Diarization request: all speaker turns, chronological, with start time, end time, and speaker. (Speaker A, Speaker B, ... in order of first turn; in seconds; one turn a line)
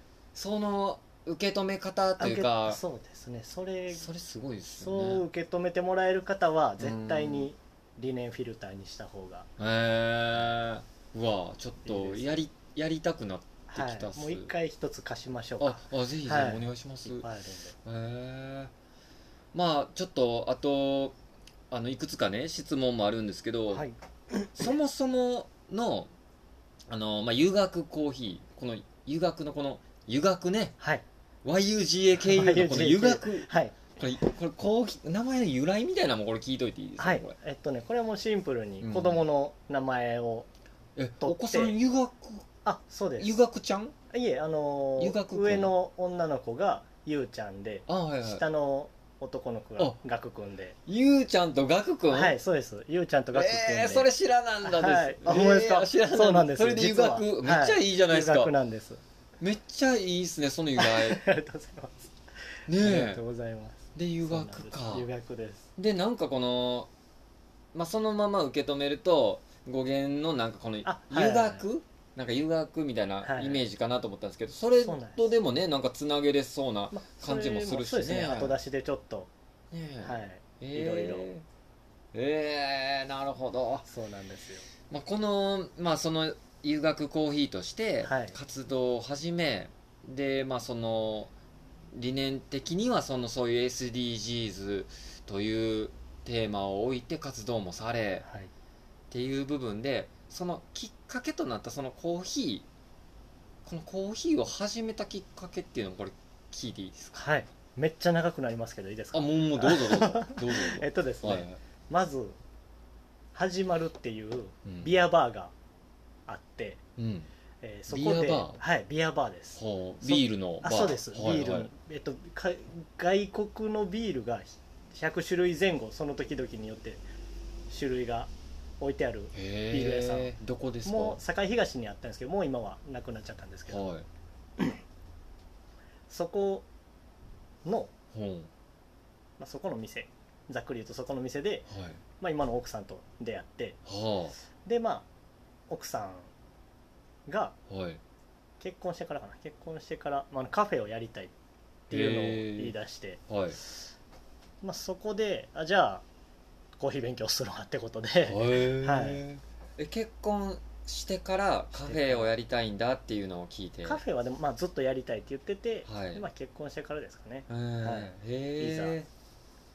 Speaker A: 0.3-2.8
Speaker B: 2.2-4.0
Speaker A: 3.9-5.2
Speaker B: 4.8-9.5
Speaker A: 6.8-7.5
Speaker A: 9.6-14.5
Speaker B: 11.8-12.4
Speaker B: 13.7-17.7
Speaker A: 15.6-17.3
Speaker A: 17.8-18.7
Speaker A: 19.5-21.1
Speaker A: 21.7-23.8
Speaker B: 23.7-24.7
Speaker A: 24.6-26.1
Speaker A: 26.9-30.8
Speaker A: 31.4-37.3
Speaker B: 32.2-33.8
Speaker B: 37.0-40.5
Speaker A: 38.8-39.2
Speaker A: 41.0-42.5
Speaker B: 41.2-41.7
Speaker B: 42.6-43.4
Speaker A: 43.2-43.9
Speaker B: 44.1-50.8
Speaker A: 45.0-45.7
Speaker A: 47.9-48.4
Speaker A: 50.9-52.4
Speaker B: 52.1-54.1
Speaker A: 53.3-58.5
Speaker B: 54.6-59.0
Speaker A: 59.4-61.2
Speaker B: 60.8-62.1
Speaker A: 62.7-63.2
Speaker B: 62.8-65.7
Speaker A: 63.9-65.1
Speaker A: 65.8-66.9
Speaker A: 67.7-78.6
Speaker B: 70.8-71.7
Speaker B: 73.2-73.6
Speaker B: 74.8-75.2
Speaker B: 76.9-79.3
Speaker A: 79.7-81.4
Speaker B: 80.0-81.3
Speaker A: 82.1-83.8
Speaker B: 83.8-84.7
Speaker A: 84.9-91.3
Speaker B: 88.0-88.3
Speaker A: 91.9-98.2
Speaker B: 98.2-98.5
Speaker A: 99.1-102.7
Speaker A: 103.6-107.1
Speaker B: 107.1-112.4
Speaker A: 109.1-111.6
Speaker B: 113.3-115.5
Speaker A: 114.6-114.9
Speaker B: 116.3-116.8
Speaker A: 117.0-117.3
Speaker B: 117.6-127.0
Speaker A: 117.9-118.6
Speaker A: 119.5-121.7
Speaker B: 127.7-133.9
Speaker A: 129.3-131.2
Speaker A: 133.7-134.1
Speaker B: 136.1-136.7
Speaker B: 137.6-137.9
Speaker A: 138.1-138.5
Speaker B: 139.4-141.7
Speaker A: 141.7-142.0
Speaker B: 142.2-143.8
Speaker A: 143.8-144.3
Speaker B: 144.6-145.1
Speaker B: 145.7-146.3
Speaker B: 147.3-147.6
Speaker A: 147.7-148.0
Speaker B: 148.6-151.3
Speaker B: 151.9-153.8
Speaker A: 151.9-152.7
Speaker A: 153.3-153.6
Speaker B: 154.6-156.0
Speaker B: 156.8-159.2
Speaker A: 158.3-164.0
Speaker B: 161.7-162.3
Speaker B: 163.8-169.0
Speaker A: 165.8-166.2
Speaker A: 167.5-169.1